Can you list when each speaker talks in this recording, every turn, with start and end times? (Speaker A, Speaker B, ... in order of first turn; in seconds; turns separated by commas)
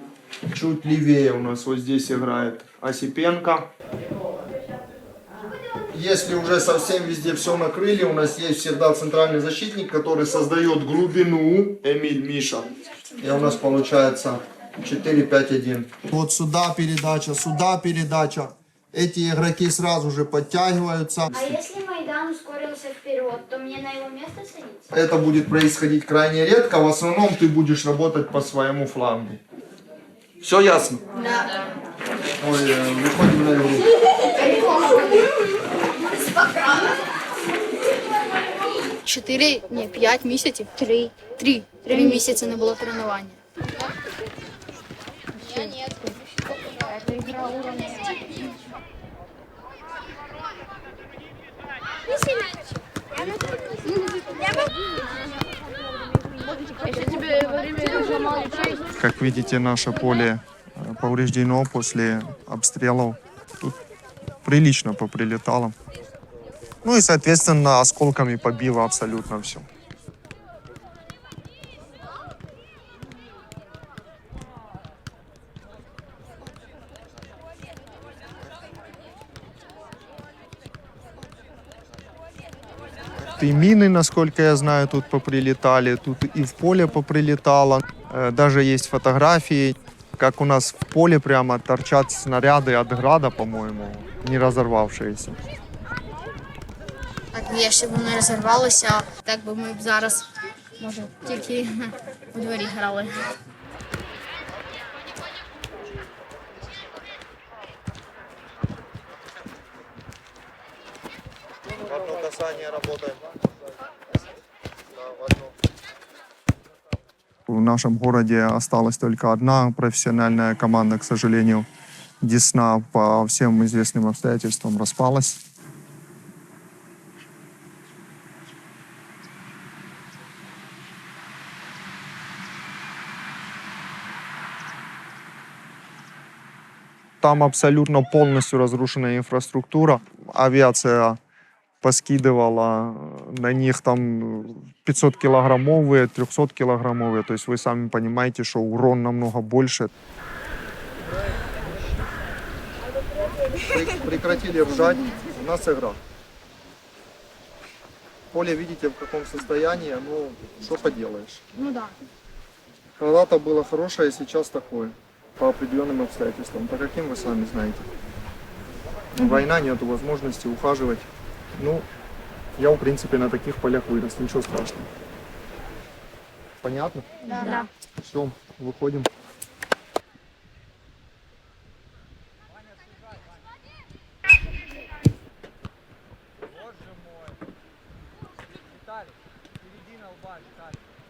Speaker A: 0.5-3.7, Speaker A: 5.9-21.5, Speaker B: 21.3-24.9, Speaker A: 24.9-29.4, Speaker A: 30.4-31.0, Speaker A: 32.4-33.9, Speaker C: 39.0-43.4, Speaker C: 45.4-46.0, Speaker A: 58.9-63.8, Speaker A: 64.4-65.8, Speaker A: 66.8-69.7, Speaker A: 83.4-95.4, Speaker C: 97.3-100.3, Speaker C: 100.8-103.3, Speaker A: 111.8-113.3, Speaker A: 115.0-115.5, Speaker A: 117.5-121.7, Speaker A: 122.2-125.4, Speaker A: 137.2-141.2, Speaker A: 141.8-149.9, Speaker A: 153.6-156.0, Speaker A: 158.3-161.4, Speaker A: 163.0-167.9, Speaker A: 169.1-171.9, Speaker A: 172.6-174.8, Speaker A: 176.6-177.1, Speaker C: 177.3-177.7, Speaker A: 178.0-179.1